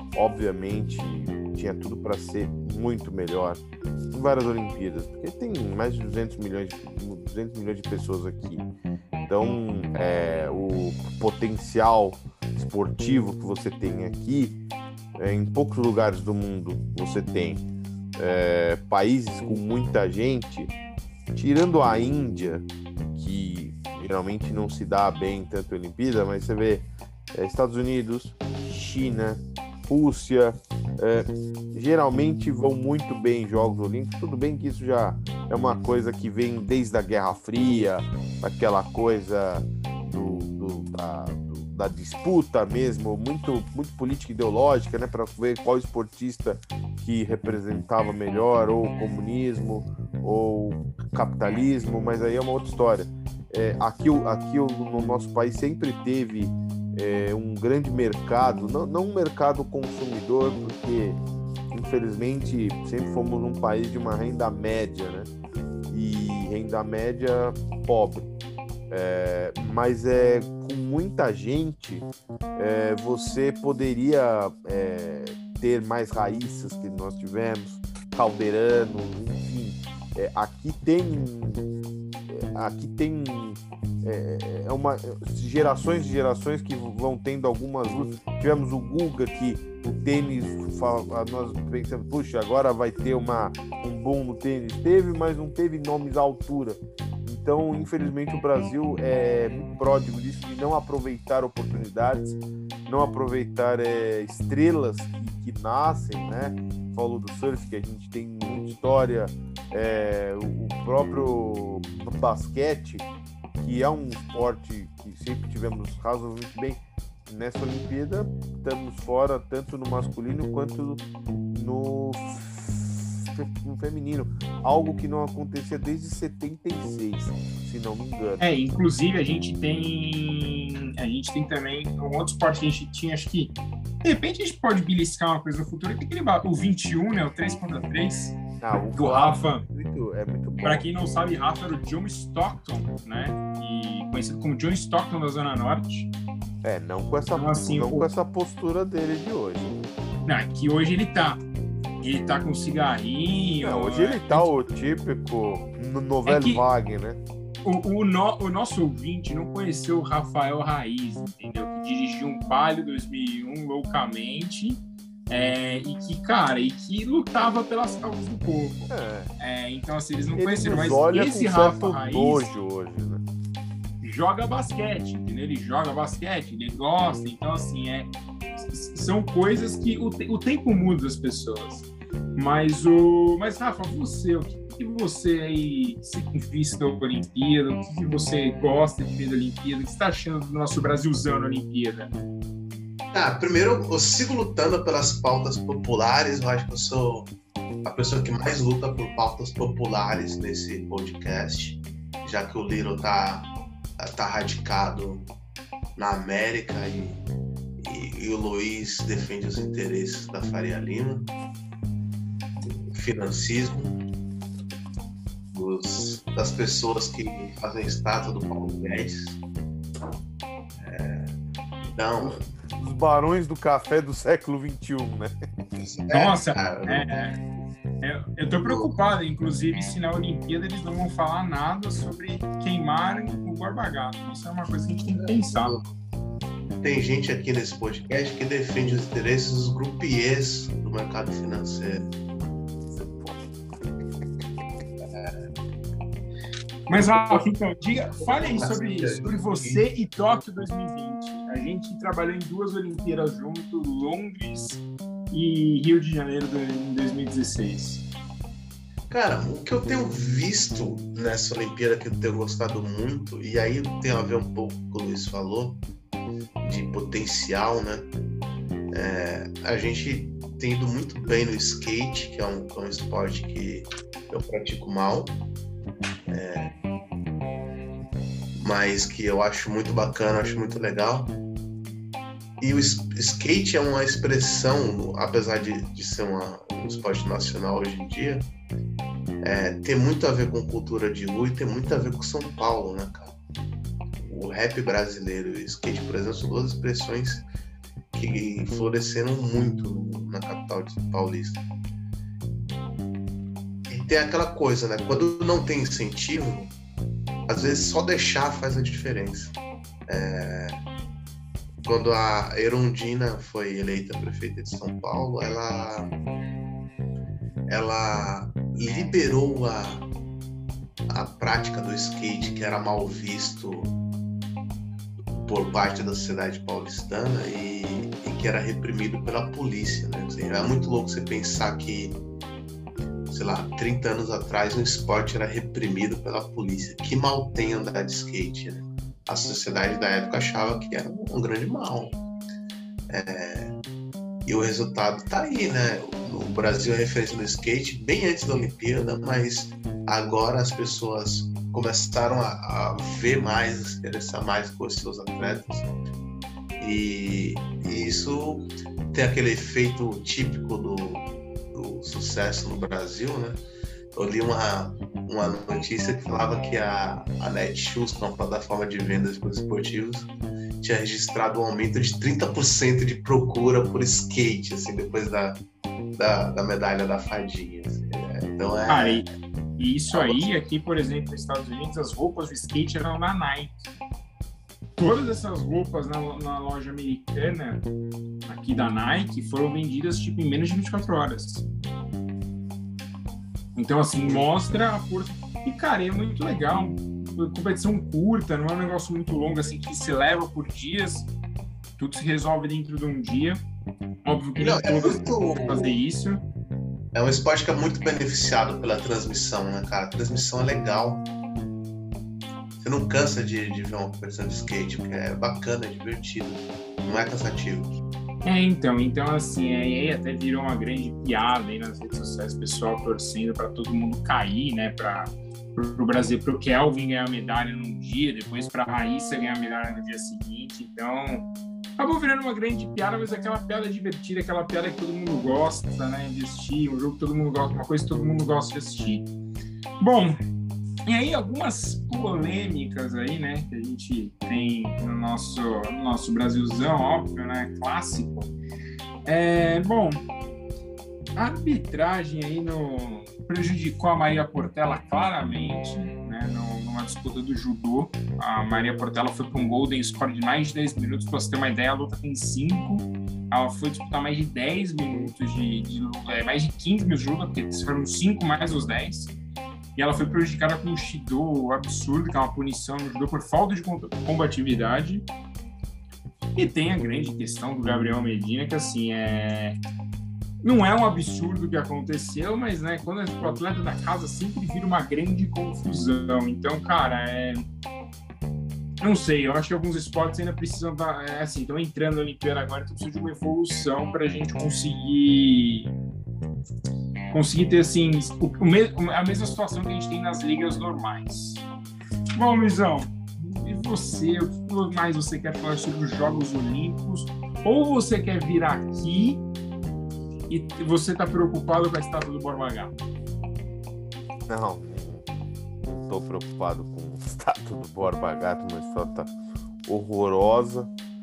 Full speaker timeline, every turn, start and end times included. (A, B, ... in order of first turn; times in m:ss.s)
0:00.1-0:03.6 A
0:04.1-0:08.7 A
0:09.3-0:14.6 A
0:15.2-0:17.6 A
0:18.2-0:20.7 A
0:21.3-1:01.2 A
1:01.7-1:05.3 A
1:05.9-1:08.3 A
1:08.9-1:21.7 A
1:22.3-2:08.5 A
2:08.4-2:18.4 B
2:18.6-2:20.9 A
2:18.9-2:19.6 B
2:20.6-2:26.1 B
2:26.6-2:29.9 A
2:27.3-2:28.1 B
2:30.2-2:31.4 B
2:32.0-2:34.5 B
2:33.6-2:37.2 A
2:36.2-2:36.6 B
2:37.6-2:52.5 B
2:48.9-2:49.3 A
2:50.3-2:53.2 A
2:54.0-3:12.1 B
3:13.1-3:17.3 C
3:17.8-3:25.3 C
3:26.0-3:27.2 C
3:27.8-3:31.3 C
3:32.9-3:34.0 C
3:35.5-3:39.4 C
3:40.8-3:41.3 C
3:41.9-3:42.5 C
3:42.2-3:45.3 A
3:45.7-3:47.1 C
3:46.1-3:47.4 B
3:48.0-3:55.8 B
3:48.4-3:48.9 C
3:55.1-3:55.9 C
3:56.8-4:02.1 C
4:02.9-4:03.4 A
4:05.0-4:05.5 C
4:06.9-4:07.4 C
4:06.9-4:18.0 B
4:08.0-4:09.8 C
4:19.1-4:25.8 C
4:26.6-4:28.1 C
4:28.9-4:35.4 C
4:36.3-4:36.7 C
4:38.6-4:41.4 C
4:42.6-4:48.5 C
4:49.4-4:53.3 C
4:54.2-4:57.4 C
4:58.1-5:01.6 C
5:03.9-5:06.7 C
5:07.5-5:09.5 C
5:10.1-5:10.8 C
5:11.8-5:16.1 C
5:17.7-5:20.0 C
5:21.1-5:23.9 C
5:25.3-5:32.2 C
5:33.3-5:42.2 C
5:43.1-5:43.7 C
5:44.4-5:55.9 C
5:56.8-6:03.6 C
6:04.1-6:10.3 C
6:10.8-6:15.6 C
6:16.2-6:19.2 C
6:18.9-6:19.3 B
6:19.8-6:23.8 B
6:20.1-6:20.5 C
6:25.0-6:27.8 B
6:28.5-6:31.6 B
6:33.8-6:41.3 B
6:42.0-6:43.6 B
6:44.2-6:46.4 B
6:44.6-6:46.0 C
6:47.1-6:51.3 C
6:52.8-6:58.0 C
6:58.4-7:11.5 B
7:12.0-7:19.3 B
7:20.0-7:20.4 B
7:21.1-7:28.5 B
7:29.2-7:30.2 B
7:31.4-7:49.4 B
7:50.0-7:55.3 B
7:56.6-7:59.8 B
8:00.6-8:07.6 B
8:09.0-8:15.9 B
8:17.3-8:21.6 B
8:22.4-8:29.4 B
8:30.5-8:33.0 B
8:34.5-8:35.2 A
8:35.8-8:39.3 A
8:39.8-8:40.9 A